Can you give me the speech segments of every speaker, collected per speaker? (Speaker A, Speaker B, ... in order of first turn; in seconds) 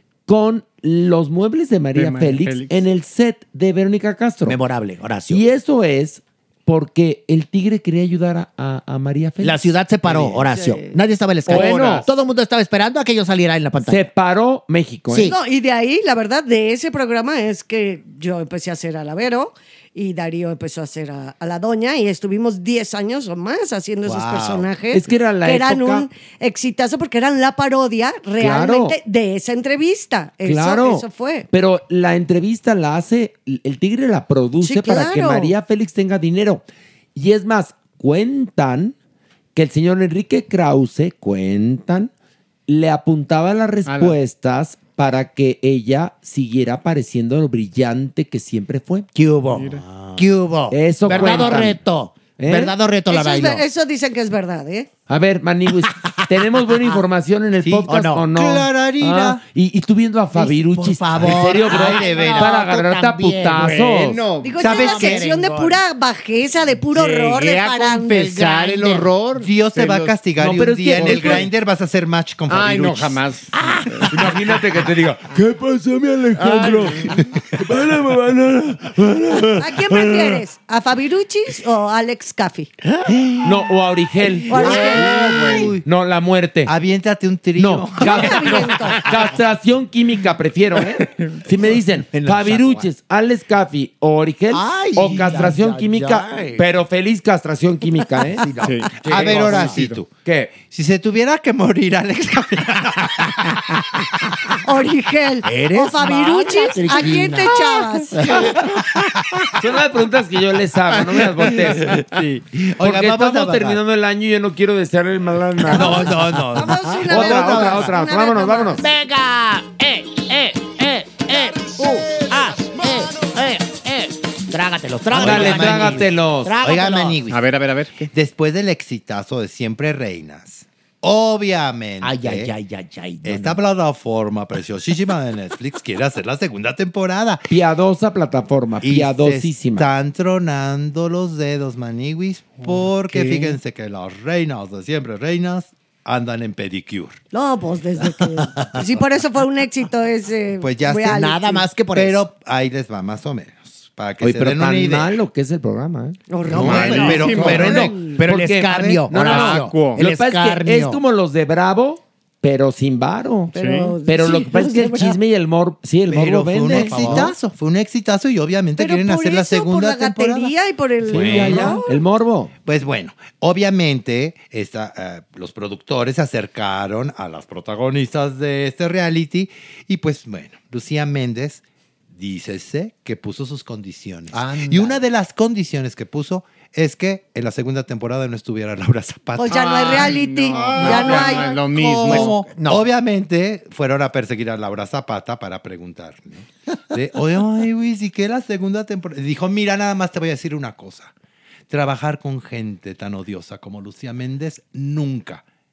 Speaker A: 0.3-4.6, 5.3-10.5, 11.5-12.1, 13.8-15.3, 24.9-26.1, 28.4-29.0, 30.4-36.6, 37.1-39.0, 39.5-42.1, 42.7-49.1, 50.7-51.8, 52.4-52.7, 55.1-64.2, 70.4-71.5, 74.1-80.4, 83.4-85.3, 85.8-86.7, 87.6-98.5, 100.1-100.5, 109.6-112.0, 112.8-116.2, 117.1-118.8, 125.1-126.5, 137.5-139.9, 154.2-163.5, 164.1-167.3, 171.1-172.5
Speaker B: 1.9-2.8, 10.6-10.9, 11.5-12.1, 43.9-44.2, 49.5-49.8, 51.1-51.6, 63.6-64.6, 66.9-70.2, 71.0-71.4, 72.5-73.5, 76.4-77.2, 84.7-85.7, 98.6-100.0, 127.3-128.1, 142.8-143.6, 157.2-157.4, 159.2-160.1, 163.6-163.9, 189.5-192.4
Speaker C: 4.5-5.5, 9.4-14.1, 15.1-15.4, 49.1-53.7, 55.8-56.1, 57.9-58.3, 60.3-63.8, 64.6-65.8, 68.1-69.1, 73.5-74.4, 82.9-83.7, 92.1-92.9, 94.5-96.7, 98.0-99.8, 105.4-109.0, 118.8-127.3, 132.0-133.6, 151.0-152.3, 156.5-161.0, 166.7-167.3, 184.3-185.0, 190.8-192.9
Speaker D: 15.2-31.5, 34.6-35.5, 53.1-54.9, 61.6-62.6, 64.4-68.3, 79.6-82.7, 84.5-85.1, 88.0-89.0, 104.6-108.2, 115.7-118.8, 147.3-151.7, 156.3-158.2, 163.5-165.2, 168.8-172.0, 189.4-191.6
Speaker E: 24.1-24.7, 49.9-50.1, 57.6-59.4, 61.2-61.4, 64.6-65.2, 69.4-73.2, 84.6-85.8, 86.7-88.8, 99.0-100.1, 100.7-103.3, 108.4-109.3, 111.4-113.8, 115.7-117.9, 125.1-127.4, 128.1-132.5, 133.2-137.5, 138.8-147.2, 150.6-151.2, 151.9-155.1, 156.5-159.1, 166.1-170.5, 171.1-171.8, 172.7-181.6, 182.1-201.1, 201.7-205.4